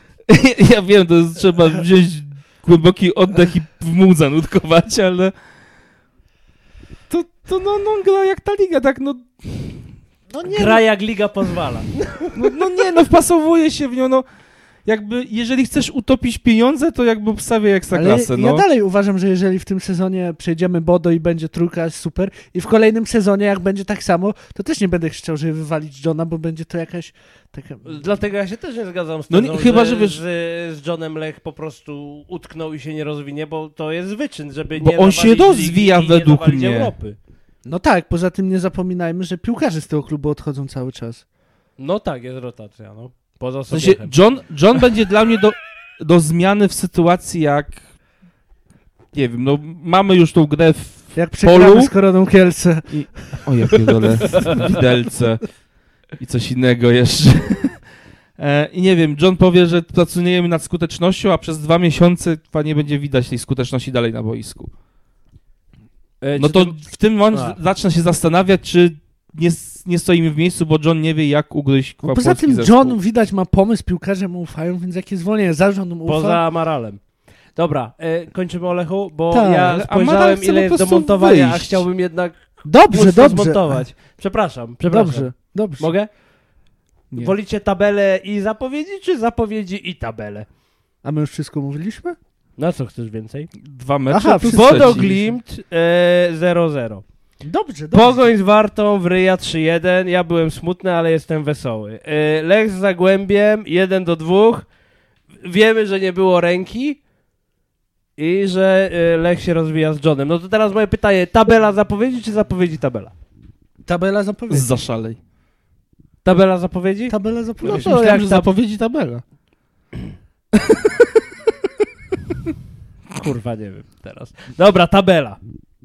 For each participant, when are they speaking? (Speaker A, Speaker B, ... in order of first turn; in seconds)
Speaker A: 0.3-5.3, 7.1-9.8, 12.3-14.2, 14.8-18.6, 29.3-30.2, 34.8-36.9, 43.7-47.8, 49.1-51.9, 52.9-55.5, 56.2-57.8, 58.4-64.7, 66.4-73.0, 79.7-81.8, 93.6-95.2, 114.5-115.2, 117.6-119.2, 120.5-120.8
Speaker B: 10.3-10.8, 17.9-27.9, 37.6-41.2, 51.1-52.9, 72.0-76.4, 79.3-79.8, 82.6-83.8, 84.9-85.9, 91.0-92.2, 94.1-95.2, 97.4-98.3, 113.8-114.7, 117.1-118.2
Speaker C: 10.5-12.5, 27.8-37.2, 41.8-44.1, 54.3-54.7, 66.2-66.8, 67.3-67.6, 76.0-77.0, 77.5-86.1, 87.1-90.5, 92.6-93.5, 94.5-97.0, 97.9-104.7, 105.4-107.0, 108.2-113.1, 116.2-118.5, 123.1-125.4